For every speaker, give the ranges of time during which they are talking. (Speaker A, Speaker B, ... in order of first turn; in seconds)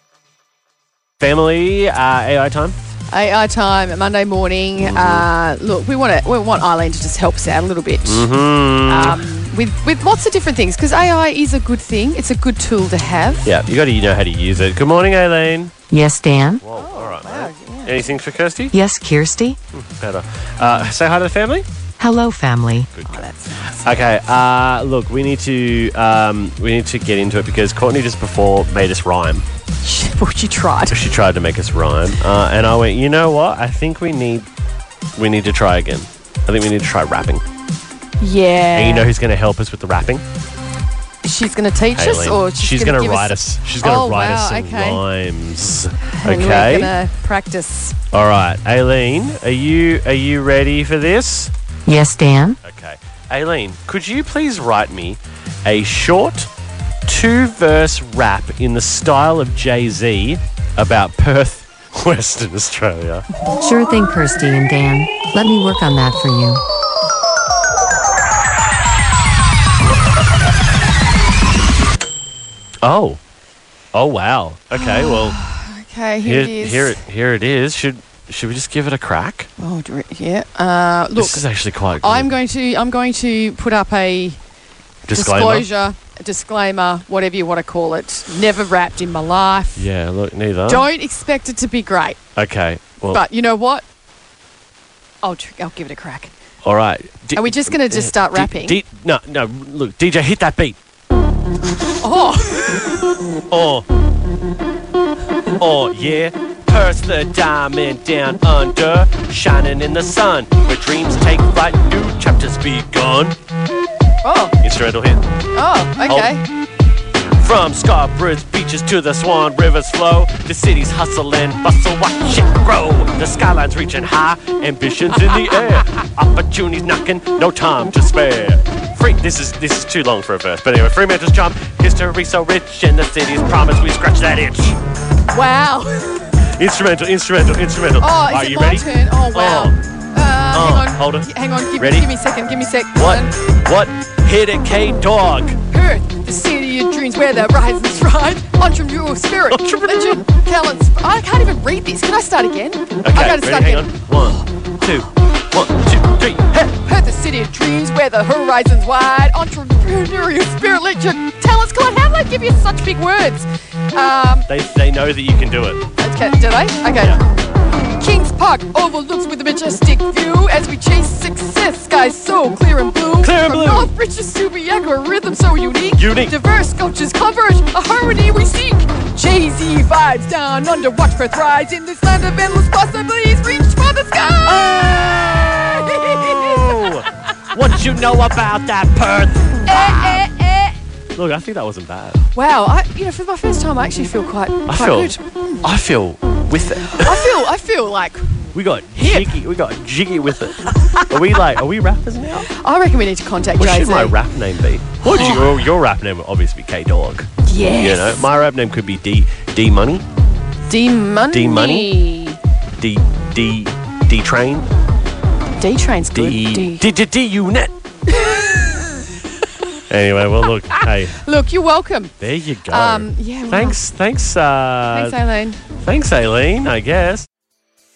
Speaker A: 1.2-2.8, 4.8-5.3, 8.0-9.2, 13.4-15.7, 16.6-18.7, 19.7-21.6, 22.9-23.3, 23.8-29.4, 30.9-34.5, 35.1-37.4, 38.7-40.2, 41.9-46.9, 48.1-51.5, 52.6-56.5, 57.0-63.2, 72.8-73.2, 73.9-75.4, 76.2-79.5, 81.2-82.3, 85.1-85.7, 89.8-90.9, 92.3-93.2, 96.6-100.8, 103.5-103.8, 105.6-113.3, 114.6-115.2, 116.1-116.3, 117.4-134.8, 136.5-139.8, 140.5-142.1, 142.9-145.6, 149.5-150.1, 153.0-156.7, 164.5-165.8, 173.2-173.9, 175.9-176.3, 184.4-190.3, 191.1-192.3, 194.7-197.4, 198.5-202.5, 203.6-210.0, 211.3-211.9, 212.8-214.7, 216.1-217.7, 219.9-221.2, 222.2-225.2, 225.7-227.3
Speaker B: 3.1-8.3, 8.8-13.5, 16.7-18.2, 23.0-24.0, 29.8-31.0, 38.2-39.1, 41.2-45.0, 46.1-47.9, 74.7-77.0, 79.6-81.4, 82.0-84.4, 85.1-89.9, 90.7-92.2, 93.1-93.8, 95.2-96.3, 97.3-98.8, 102.0-103.2, 114.2-114.5, 115.5-116.4, 135.3-136.3, 138.0-143.3, 145.7-153.9, 156.8-164.5, 166.0-167.2, 168.0-187.0, 189.6-190.7, 192.3-195.6, 197.0-198.2, 198.9-199.4, 200.6-201.1, 202.4-204.2, 205.0-205.7, 207.4-208.2, 210.7-212.4, 215.6-216.8, 218.1-219.2, 220.4-222.1, 222.7-223.8, 224.9-225.6
Speaker C: 15.9-16.6, 18.7-19.6, 22.0-22.9, 51.9-52.6, 63.6-66.6